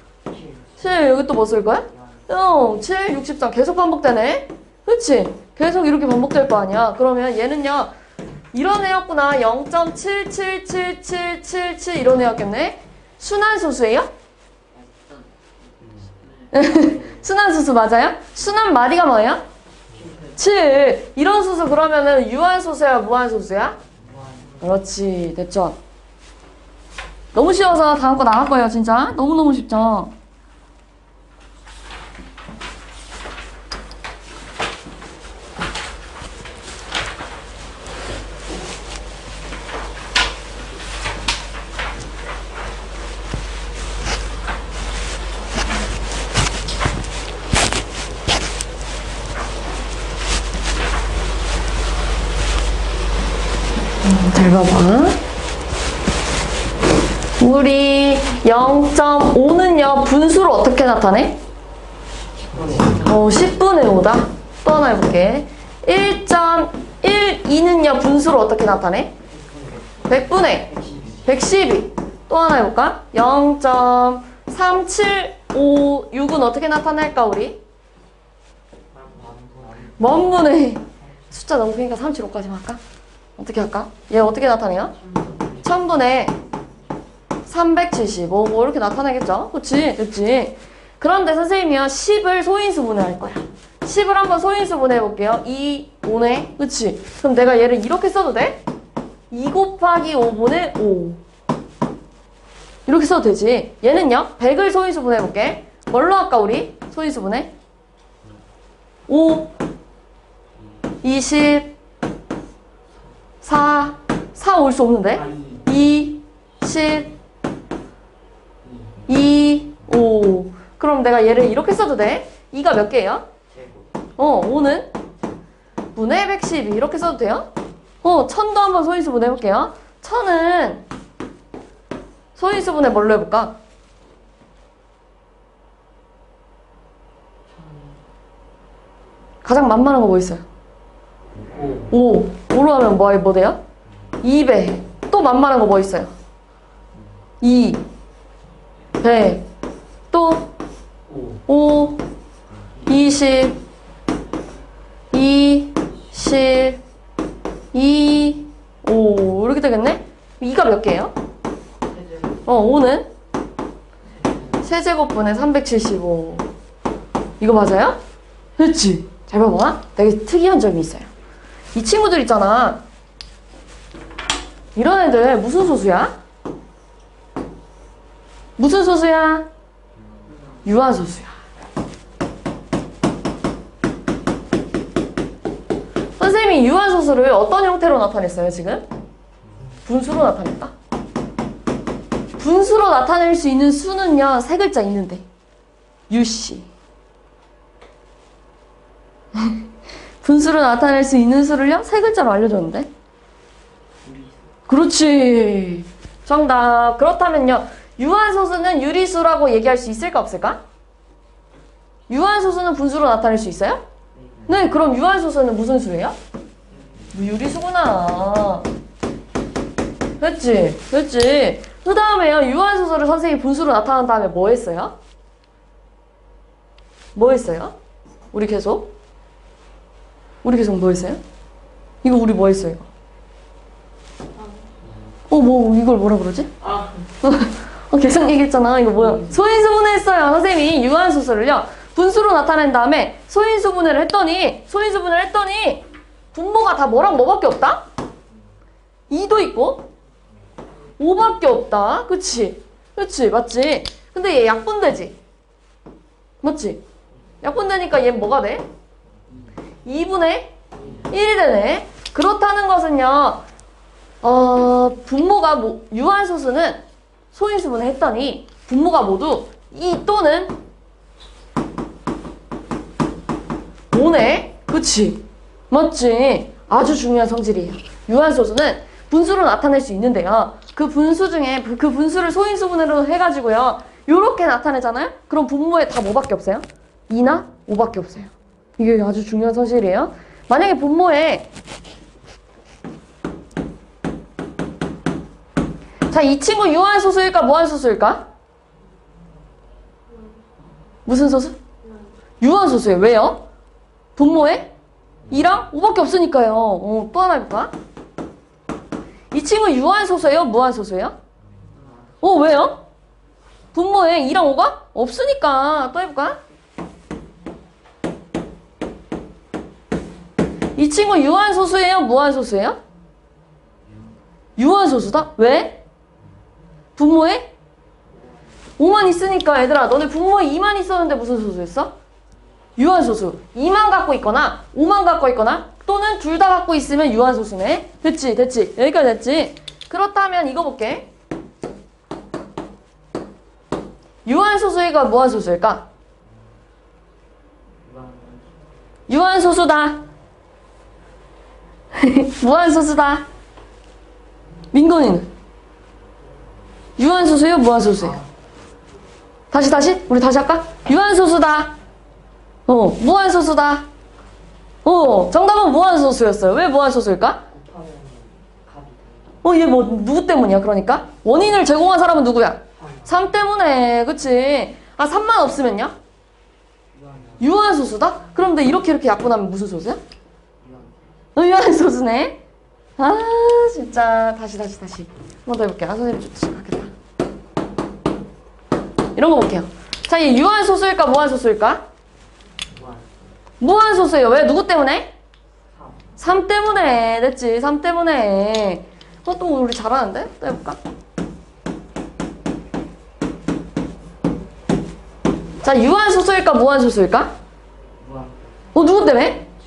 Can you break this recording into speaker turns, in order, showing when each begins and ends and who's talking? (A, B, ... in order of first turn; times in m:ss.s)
0:00.2-0:01.2 A
0:00.8-0:07.9 B
0:01.9-0:02.3 A
0:08.5-0:14.1 B
0:14.7-0:17.2 A
0:16.5-0:19.4 B
0:19.9-0:20.4 A
0:20.4-0:23.8 B
0:24.0-0:24.8 A
0:24.6-0:25.8 B
0:27.3-0:30.1 B
0:54.0-0:55.2 B
0:57.4-1:01.4 B
1:02.4-1:03.2 A
1:03.0-1:09.1 B
1:09.3-1:11.4 A
1:10.1-1:17.6 B
1:18.9-1:20.5 A
1:20.0-1:22.8 B
1:23.4-1:24.9 B
1:25.0-1:26.7 A
1:25.6-1:26.4 B
1:27.5-1:38.6 B
1:39.3-1:41.2 B
1:42.9-1:47.5 B
1:49.1-1:49.5 B
1:51.0-1:51.8 B
1:53.4-1:57.1 B
1:55.1-1:55.7 A
1:58.6-1:59.1 A
1:59.1-2:03.3 B
2:03.5-2:03.9 A
2:04.2-2:04.9 B
2:06.0-2:07.5 B
2:08.0-2:10.8 B
2:12.4-2:13.6 B
2:17.5-2:18.0 A
2:19.4-2:20.4 B
2:21.3-2:21.9 A
2:21.9-2:23.6 B
2:24.2-2:26.1 B
2:27.4-2:27.8 B
2:29.0-2:29.4 B
2:30.1-2:30.5 B
2:31.1-2:31.4 A
2:31.5-2:32.0 B
2:32.9-2:33.6 B
2:35.1-2:36.8 B
2:37.7-2:41.1 B
2:41.9-2:42.5 A
2:42.4-2:43.1 B
2:44.1-2:44.6 A
2:44.6-2:46.5 B
2:47.4-2:48.0 B
2:48.6-2:51.1 B
2:51.8-2:52.8 B
2:54.8-2:56.1 B
2:58.6-2:59.5 B
3:00.3-3:00.6 A
3:00.6-3:01.3 B
3:06.2-3:08.9 B
3:09.9-3:10.7 B
3:12.4-3:15.2 B
3:16.1-3:16.7 B
3:19.4-3:19.6 B
3:20.2-3:22.9 B
3:24.0-3:24.5 A
3:24.7-3:30.6 B
3:32.1-3:33.8 B
3:34.1-3:34.6 A
3:34.5-3:36.2 B
3:36.7-3:37.2 A
3:37.1-3:38.7 B
3:40.2-3:44.9 B
3:47.1-3:47.7 B
3:48.3-3:48.9 B
3:50.4-3:51.2 B
3:52.0-3:52.9 B
3:55.3-3:56.5 B
3:56.6-3:57.1 A
3:57.2-4:07.9 B
3:59.0-3:59.4 A
4:09.1-4:09.9 B
4:11.0-4:15.2 B
4:16.4-4:16.8 B
4:17.4-4:18.7 B
4:19.8-4:20.6 B
4:20.7-4:21.1 A
4:21.1-4:23.4 B
4:24.2-4:30.5 B
4:33.9-4:51.5 B
4:56.1-4:58.2 B
5:01.0-5:01.6 B
5:02.4-5:03.4 B
5:04.2-5:04.7 B
5:05.3-5:07.7 B
5:09.3-5:11.2 B
5:11.5-5:12.2 A
5:12.2-5:12.8 B
5:13.7-5:16.4 B
5:20.8-5:22.8 B
5:24.6-5:25.8 B
5:27.0-5:27.5 B
5:28.8-5:31.9 B
5:32.8-5:41.1 B
5:44.2-5:45.9 B
5:47.8-5:48.5 A
5:49.1-5:50.0 B
5:51.9-5:53.2 B
5:54.7-5:55.3 B
5:57.0-5:58.2 B
5:58.0-5:58.3 A
5:59.5-6:01.8 B
6:02.7-6:03.9 B
6:04.8-6:07.4 B
6:07.5-6:09.4 A
6:09.4-6:15.9 B
6:12.8-6:13.2 A
6:16.9-6:17.5 A
6:17.4-6:20.0 B
6:20.6-6:21.2 A
6:21.4-6:22.4 B
6:23.0-6:26.9 B
6:29.2-6:31.8 B
6:32.6-6:33.2 A
6:33.6-6:35.1 B
6:35.7-6:36.0 A
6:36.2-6:40.8 B
6:45.6-6:47.3 B
6:48.0-6:48.4 A
6:48.7-6:49.5 B